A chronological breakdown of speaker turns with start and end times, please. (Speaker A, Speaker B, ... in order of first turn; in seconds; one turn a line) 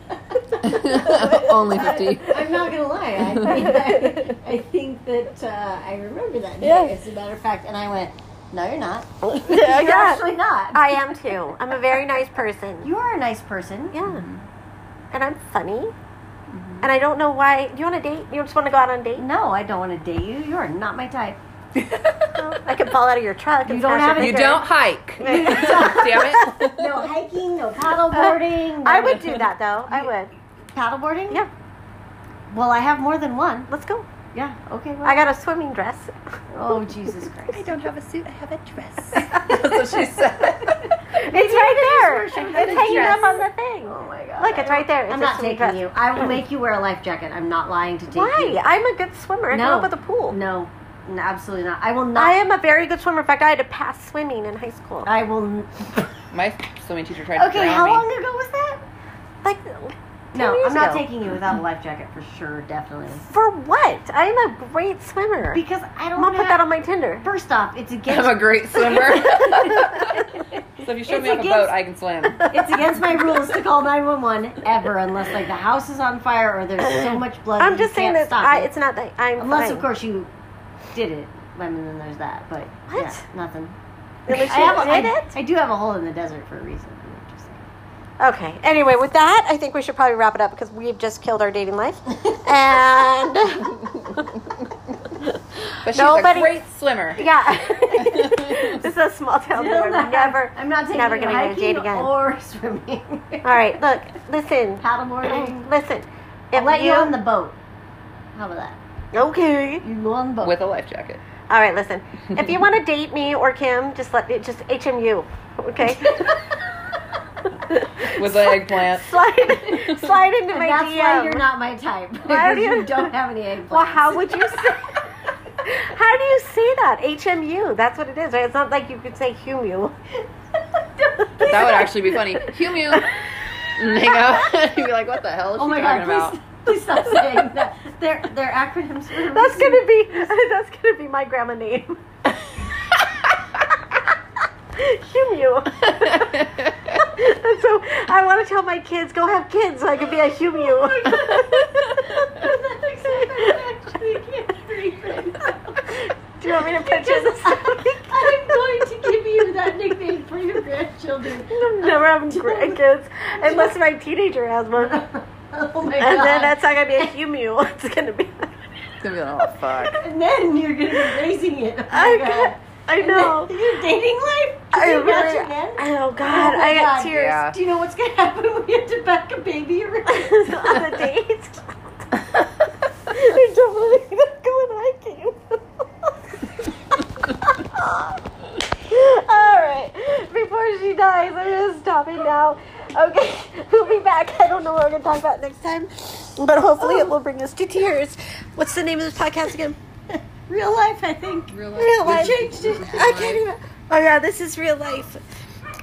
Speaker A: 0.3-2.2
Speaker B: 0.6-2.6
Speaker C: 1.7-11.0
Speaker A: 3.4-4.3
Speaker A: 6.6-6.9
Speaker A: 9.2-12.9
Speaker C: 12.8-14.0
Speaker A: 13.9-14.2
Speaker B: 14.0-14.4
Speaker A: 15.1-15.9
Speaker A: 16.8-19.2
Speaker C: 19.1-21.4
Speaker B: 21.8-22.3
Speaker A: 22.4-24.6
Speaker C: 23.6-24.6
Speaker B: 24.1-27.1
Speaker A: 25.2-26.5
Speaker C: 25.2-30.1
Speaker A: 28.1-30.3
Speaker C: 30.7-31.4
Speaker C: 32.5-33.7
Speaker A: 33.7-34.1
Speaker C: 34.3-35.2
Speaker A: 35.0-36.2
Speaker C: 36.5-37.6
Speaker B: 37.5-41.0
Speaker C: 39.3-39.8
Speaker C: 40.6-48.6
Speaker A: 41.2-46.3
Speaker A: 48.1-50.4
Speaker C: 49.5-52.4
Speaker A: 52.1-55.1
Speaker C: 55.0-56.1
Speaker B: 56.3-58.1
Speaker C: 57.4-58.8
Speaker A: 59.4-61.1
Speaker C: 60.3-63.3
Speaker A: 63.3-65.6
Speaker C: 65.5-66.6
Speaker A: 66.2-67.2
Speaker C: 67.2-71.7
Speaker B: 68.1-72.5
Speaker C: 72.4-78.7
Speaker A: 76.8-79.8
Speaker C: 79.4-80.3
Speaker C: 80.9-83.8
Speaker A: 82.9-83.2
Speaker A: 84.3-85.3
Speaker C: 84.3-87.7
Speaker A: 88.2-94.2
Speaker B: 95.8-97.3
Speaker A: 95.8-96.6
Speaker A: 97.2-102.1
Speaker B: 97.8-98.8
Speaker C: 99.5-103.8
Speaker A: 103.4-107.2
Speaker C: 104.8-105.7
Speaker C: 106.5-107.6
Speaker C: 108.3-108.8
Speaker A: 109.1-109.8
Speaker C: 109.8-110.5
Speaker B: 110.4-111.2
Speaker A: 111.5-116.4
Speaker A: 117.7-121.4
Speaker B: 118.0-120.1
Speaker C: 120.5-124.6
Speaker A: 122.3-123.1
Speaker A: 123.7-125.0
Speaker A: 125.6-129.9
Speaker C: 131.0-132.2
Speaker B: 131.4-136.4
Speaker C: 135.6-139.9
Speaker A: 139.3-142.0
Speaker A: 144.7-146.3
Speaker B: 145.8-147.0
Speaker A: 147.0-152.4
Speaker C: 150.6-155.9
Speaker A: 155.9-158.6
Speaker C: 156.5-162.8
Speaker A: 161.5-165.1
Speaker C: 163.3-163.8
Speaker C: 164.8-167.1
Speaker A: 165.8-168.6
Speaker B: 169.0-170.0
Speaker A: 169.4-169.8
Speaker C: 169.9-180.8
Speaker A: 171.9-173.5
Speaker A: 174.7-177.4
Speaker B: 177.0-177.6
Speaker A: 180.1-182.1
Speaker A: 183.1-186.1
Speaker A: 187.3-188.2
Speaker A: 188.7-199.8
Speaker C: 196.8-197.1
Speaker C: 200.1-203.2
Speaker B: 201.5-203.4
Speaker A: 201.8-205.2